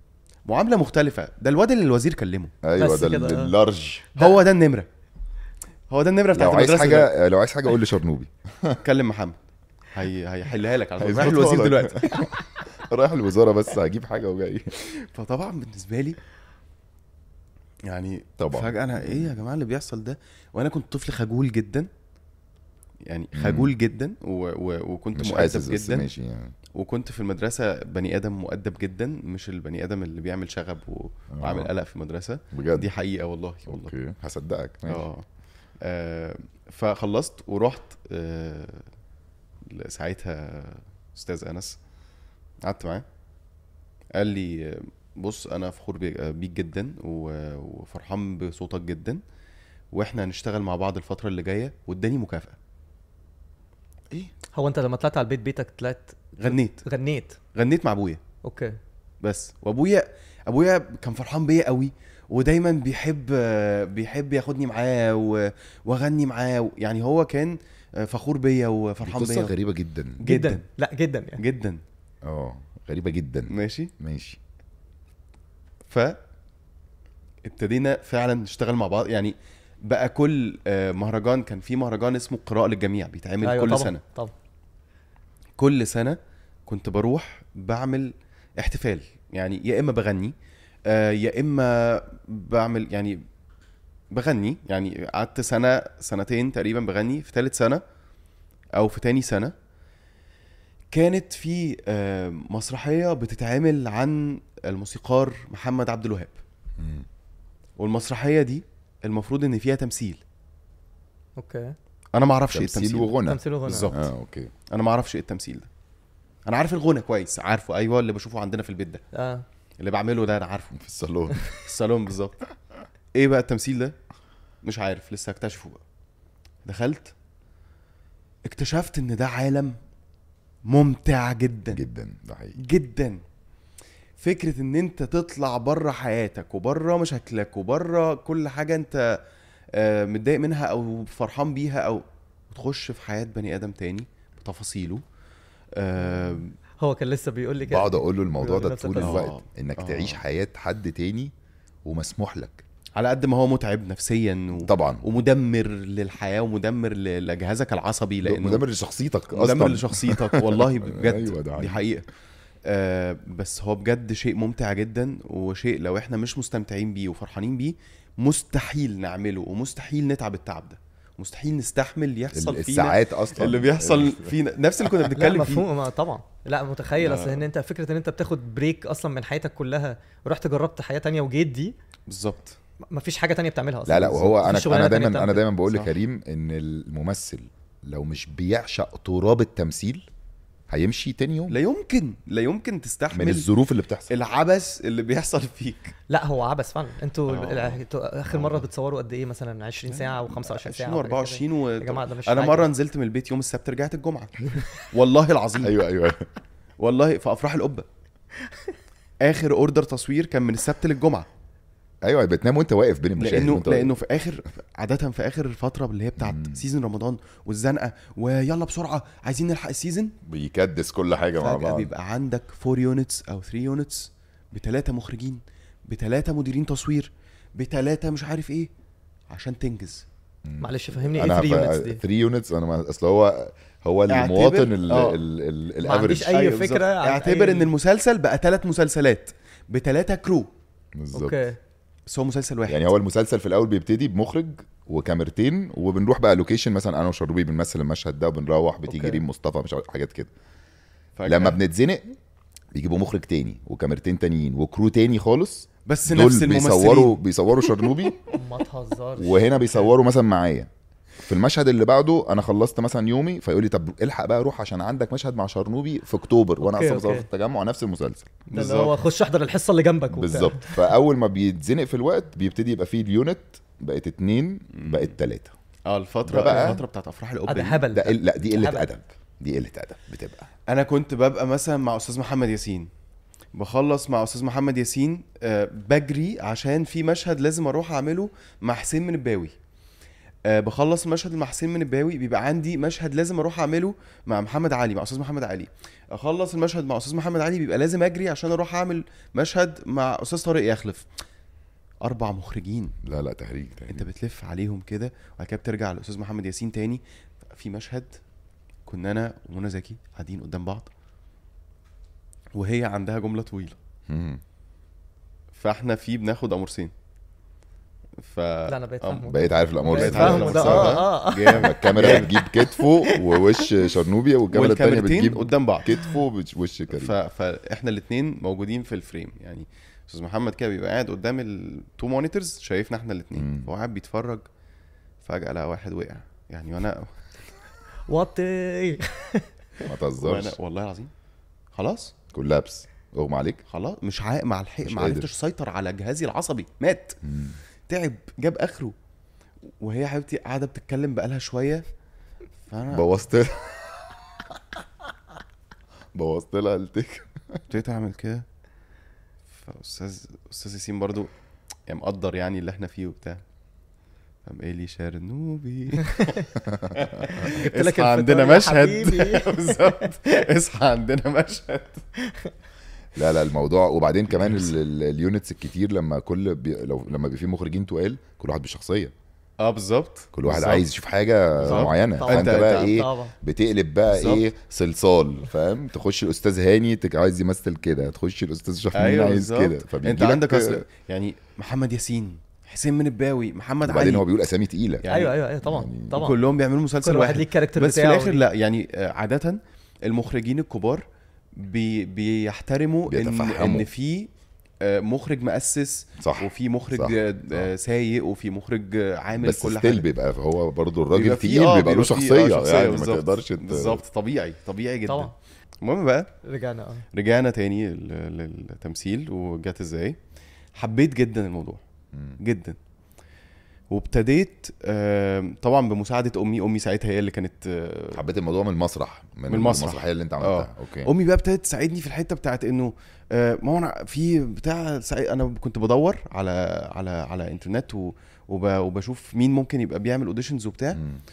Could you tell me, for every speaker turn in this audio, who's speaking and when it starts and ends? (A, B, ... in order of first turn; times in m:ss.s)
0:00.5-0:02.5 A
0:02.6-0:04.1 B
0:02.8-0:03.5 C
0:04.2-0:04.9 A
0:05.9-0:07.1 A
0:06.3-0:08.8 B
0:08.8-0:09.4 A
0:09.9-0:12.3 A
0:11.0-0:14.7 B
0:14.9-0:16.2 A
0:17.9-0:21.9 A
0:18.4-0:19.4 B
0:23.1-0:26.1 A
0:23.3-0:23.7 B
0:25.2-0:26.6 B
0:26.7-0:33.9 A
0:31.3-0:31.7 B
0:32.5-0:32.9 B
0:33.7-0:35.1 B
0:34.9-0:35.2 A
0:35.8-0:38.9 A
0:39.7-0:41.8 A
0:42.6-0:43.0 A
0:44.2-0:49.2 A
0:49.9-0:52.6 A
0:54.5-0:57.4 C
0:56.4-0:56.8 A
0:57.5-0:58.2 A
0:58.4-0:58.8 C
0:59.2-1:09.6 A
1:09.0-1:10.2 B
1:10.2-1:10.6 A
1:10.2-1:11.4 C
1:11.4-1:11.8 A
1:12.2-1:14.4 B
1:13.5-1:13.9 A
1:15.9-1:16.2 A
1:17.4-1:24.0 A
1:23.4-1:24.3 C
1:25.6-1:30.3 A
1:30.9-1:33.2 A
1:34.1-1:37.8 A
1:38.8-1:39.5 A
1:40.9-1:46.4 A
1:46.8-1:47.1 B
1:47.8-1:50.2 A
1:51.4-1:51.8 C
1:52.1-1:54.1 A
1:52.5-1:54.5 B
1:53.3-1:54.0 C
1:54.7-1:55.7 A
1:56.5-1:59.0 A
1:59.1-1:59.5 C
1:59.8-2:00.7 A
2:00.7-2:01.6 B
2:01.6-2:02.4 A
2:03.1-2:04.0 A
2:04.6-2:05.8 A
2:06.6-2:07.1 A
2:08.5-2:09.8 A
2:10.7-2:11.8 A
2:11.7-2:12.6 B
2:12.6-2:13.2 A
2:14.2-2:19.2 A
2:19.7-2:25.0 A
2:25.8-2:26.5 A
2:26.8-2:29.3 C
2:27.6-2:31.3 B
2:29.0-2:30.2 A
2:31.8-2:32.6 B
2:33.0-2:38.6 A
2:34.6-2:35.0 B
2:38.2-2:41.8 B
2:39.3-2:42.0 A
2:42.7-2:55.7 A
2:52.3-2:54.4 B
2:55.2-3:01.8 C
2:57.0-2:57.4 A
3:02.1-3:02.6 A
3:02.9-3:05.4 C
3:03.9-3:10.1 B
3:10.7-3:11.6 B
3:11.5-3:13.5 A
3:13.1-3:14.1 B
3:14.1-3:15.9 A
3:16.1-3:22.7 C
3:17.3-3:17.8 A
3:19.9-3:25.8 A
3:25.6-3:26.3 B
3:26.8-3:27.9 A
3:29.2-3:31.3 A
3:32.0-3:34.0 B
3:33.2-3:40.2 A
3:36.2-3:36.6 B
3:40.2-3:41.9 B
3:41.4-3:48.7 A
3:49.3-3:50.1 A
3:50.4-3:56.4 B
3:50.6-3:52.0 C
3:54.1-3:55.2 A
3:55.8-3:57.7 C
3:56.3-4:00.5 A
4:01.0-4:01.4 B
4:01.1-4:01.6 C
4:02.1-4:02.9 A
4:02.7-4:10.3 B
4:08.9-4:09.2 C
4:11.2-4:11.6 A
4:11.3-4:12.2 B
4:12.7-4:18.2 B
4:15.9-4:17.2 A
4:18.3-4:19.6 C
4:19.2-4:20.7 B
4:21.2-4:28.4 B
4:26.6-4:27.3 C
4:28.5-4:28.9 A
4:28.5-4:30.8 C
4:30.1-4:35.5 B
4:34.7-4:35.1 A
4:35.9-4:37.9 A
4:36.3-4:36.8 B
4:37.5-4:38.9 C
4:37.9-4:40.5 B
4:40.7-4:42.9 A
4:43.5-4:49.5 A
4:50.5-5:01.1 A
5:02.0-5:03.0 A
5:03.0-5:04.1 B
5:03.9-5:08.2 A
5:08.9-5:10.9 A
5:12.6-5:13.8 A
5:14.1-5:14.4 B
5:15.5-5:16.9 A
5:18.2-5:19.3 A
5:18.7-5:23.7 C
5:19.2-5:27.2 B
5:19.9-5:22.3 A
5:24.5-5:26.0 A
5:26.9-5:34.4 A
5:33.4-5:33.7 B
5:35.2-5:37.2 A
5:38.1-5:39.9 C
5:39.8-5:40.6 B
5:40.2-5:41.1 A
5:41.7-5:42.1 A
5:42.3-5:43.6 B
5:43.7-5:47.2 A
5:44.8-5:45.3 B
5:47.2-5:47.6 B
5:47.9-5:49.0 A
5:49.8-5:51.9 A
5:52.7-5:53.1 A
5:52.9-5:54.8 B
5:56.1-5:57.6 B
5:57.7-5:58.4 A
5:59.5-6:01.3 A
6:01.9-6:03.4 A
6:04.4-6:12.0 A
6:06.1-6:06.4 C
6:06.7-6:07.0 B
6:07.4-6:10.3 C
6:13.2-6:19.1 B
6:19.6-6:20.9 A
6:20.3-6:30.8 B
6:21.6-6:23.0 A
6:21.7-6:23.3 C
6:24.1-6:24.5 A
6:28.9-6:34.3 A
6:33.8-6:35.1 B
6:35.0-6:35.4 A
6:35.1-6:36.4 C
6:35.6-6:36.3 B
6:36.1-6:41.0 A
6:37.0-6:38.4 C
6:41.6-6:44.3 A
6:43.1-6:43.9 B
6:44.8-6:50.1 A
6:46.2-6:47.7 B
6:49.4-6:54.0 B
6:51.1-6:56.3 A
6:55.1-6:55.3 C
6:56.4-6:57.0 C
6:57.1-7:00.2 A
7:00.8-7:01.8 A
7:02.1-7:02.4 B
7:02.4-7:02.8 A
7:03.9-7:08.2 A
7:08.1-7:11.1 B
7:09.5-7:21.0 A
7:20.9-7:21.2 B